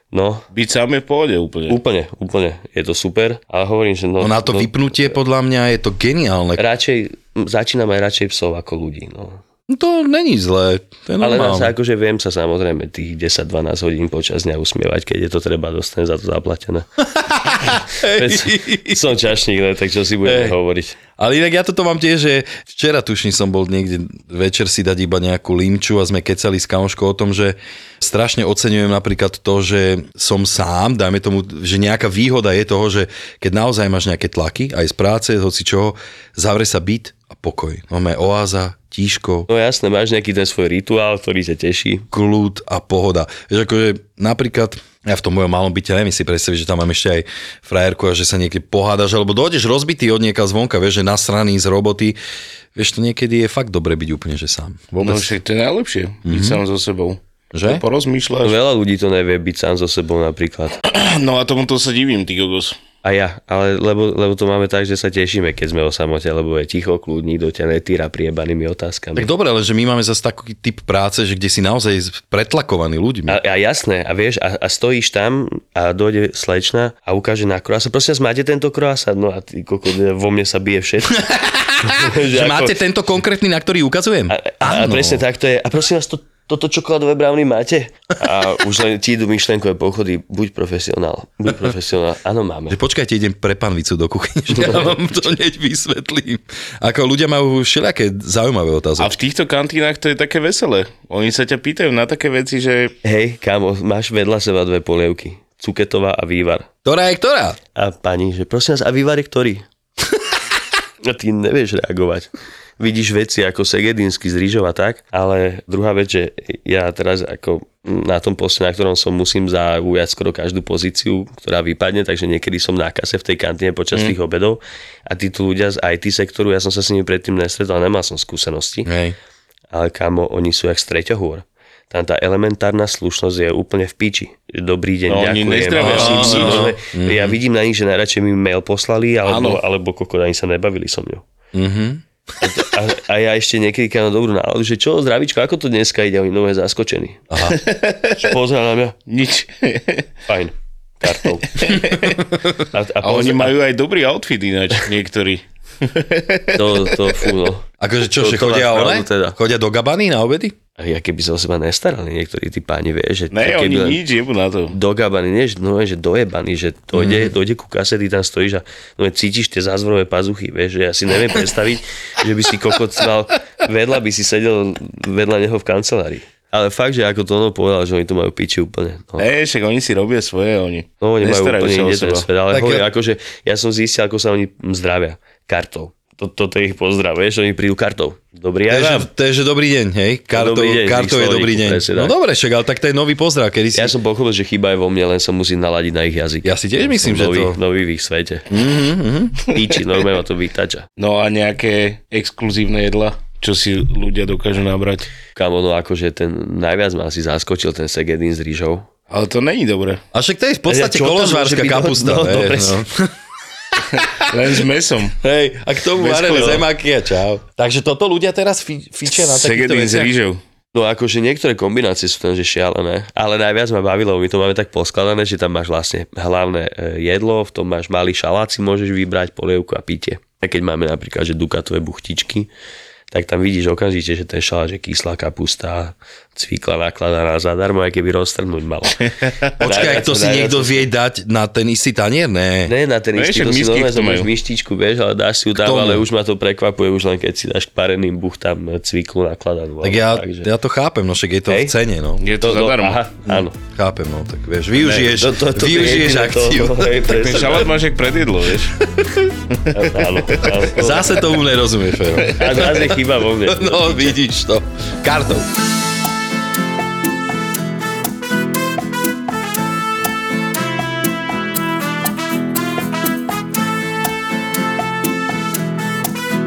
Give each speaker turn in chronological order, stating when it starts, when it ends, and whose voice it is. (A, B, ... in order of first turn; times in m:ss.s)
0:00.1-0:00.5 A
0:00.5-0:01.8 B
0:01.7-0:05.2 A
0:04.2-0:06.6 C
0:06.6-0:09.4 A
0:09.7-0:11.7 C
0:11.2-0:16.9 A
0:17.2-0:19.1 C
0:18.0-0:21.0 A
0:20.2-0:20.6 C
0:21.2-0:39.5 C
0:39.5-0:42.1 A
0:42.1-0:52.2 C
0:52.8-0:55.3 C
0:55.0-0:58.6 B
0:56.2-0:56.6 C
0:57.5-0:57.8 C
0:58.4-1:00.8 A
1:00.8-1:02.8 B
1:03.0-1:09.3 A
1:09.2-1:13.4 C
1:13.3-1:21.2 A
1:21.1-1:25.2 C
1:21.8-1:22.8 A
1:24.3-1:32.8 A
1:32.7-1:39.2 C
1:34.6-1:34.9 A
1:39.0-1:43.0 B
1:43.0-1:46.7 A
1:46.8-1:47.6 C
1:47.8-1:49.6 A
1:51.0-1:52.3 A
1:52.8-2:08.9 A
2:08.8-2:09.2 C
2:09.7-2:21.2 A
2:15.1-2:16.7 B
2:15.8-2:17.4 C
2:19.3-2:19.6 B
2:21.5-2:22.0 C
2:22.4-2:27.2 A
2:27.3-2:27.6 C
2:27.5-2:28.2 B
2:28.2-2:29.0 A
2:29.1-2:30.1 B
2:30.3-2:31.9 A
2:31.6-2:32.2 B
2:32.7-2:33.5 A
2:33.0-2:37.3 B
2:36.6-2:39.4 A
2:37.8-2:40.6 C
2:40.8-2:44.0 A
2:43.3-2:44.8 B
2:44.7-2:59.3 A
2:46.9-2:47.3 C
2:59.2-3:02.3 B
3:01.0-3:09.1 A
3:02.5-3:02.8 C
3:08.7-3:14.0 C
3:10.3-3:12.2 A
3:13.8-3:18.5 A
3:16.4-3:17.6 C
3:18.5-3:19.4 C
3:19.5-3:20.9 A
3:21.0-3:25.1 B
3:25.4-3:28.9 A
3:29.1-3:30.0 B
3:30.1-3:33.2 C
3:30.7-3:32.8 A
3:33.7-3:34.4 C
3:33.9-3:35.2 B
3:35.2-3:40.1 C
3:36.0-3:36.6 B
3:39.1-3:40.4 B
3:40.7-3:52.5 A
3:53.1-3:59.0 A
3:59.6-4:02.7 C
3:59.6-4:00.9 A
4:02.7-4:10.5 A
4:03.2-4:04.3 B
4:05.6-4:06.0 C
4:09.8-4:12.2 C
4:11.5-4:11.8 A
4:12.2-4:13.0 B
4:12.4-4:13.6 A
4:13.3-4:17.1 C
4:14.8-4:15.1 B
4:15.1-4:17.7 A
4:17.1-4:18.8 B
4:19.5-4:20.5 B
4:19.7-4:21.1 A
4:20.7-4:25.5 C
4:22.4-4:24.2 A